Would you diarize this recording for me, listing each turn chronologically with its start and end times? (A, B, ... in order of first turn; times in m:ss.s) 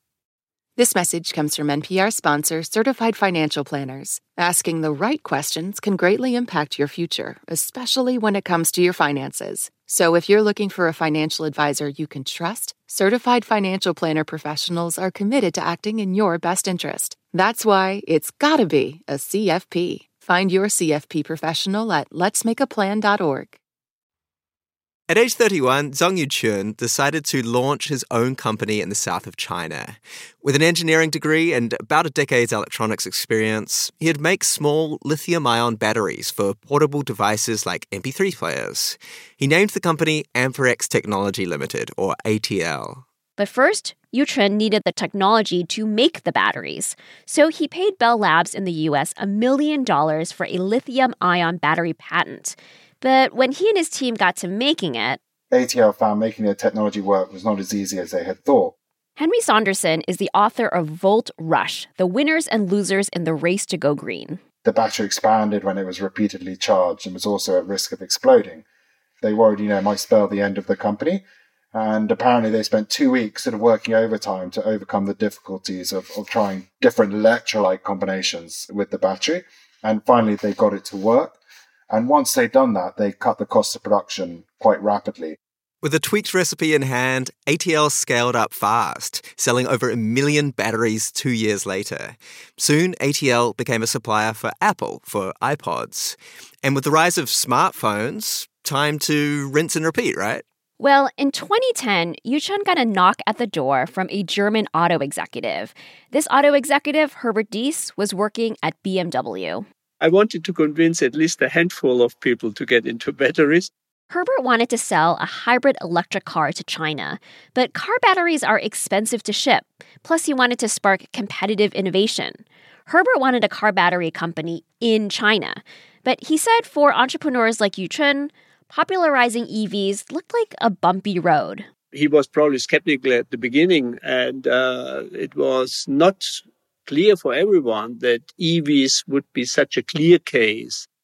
0:05.4-0:09.0 A
0:09.7-0:11.2 A
0:12.1-0:15.2 A
0:16.4-0:17.6 A
0:18.2-0:21.8 A
0:22.3-0:22.8 A
0:25.1-0:43.0 B
0:43.4-0:55.2 C
0:55.5-0:58.7 D
0:59.2-1:04.4 C
1:04.6-1:08.6 D
1:09.2-1:21.4 D
1:21.9-1:25.4 D
1:25.8-1:40.4 B
1:40.8-1:49.6 C
1:50.0-1:53.7 E
1:54.1-2:11.7 C
2:11.9-2:20.9 E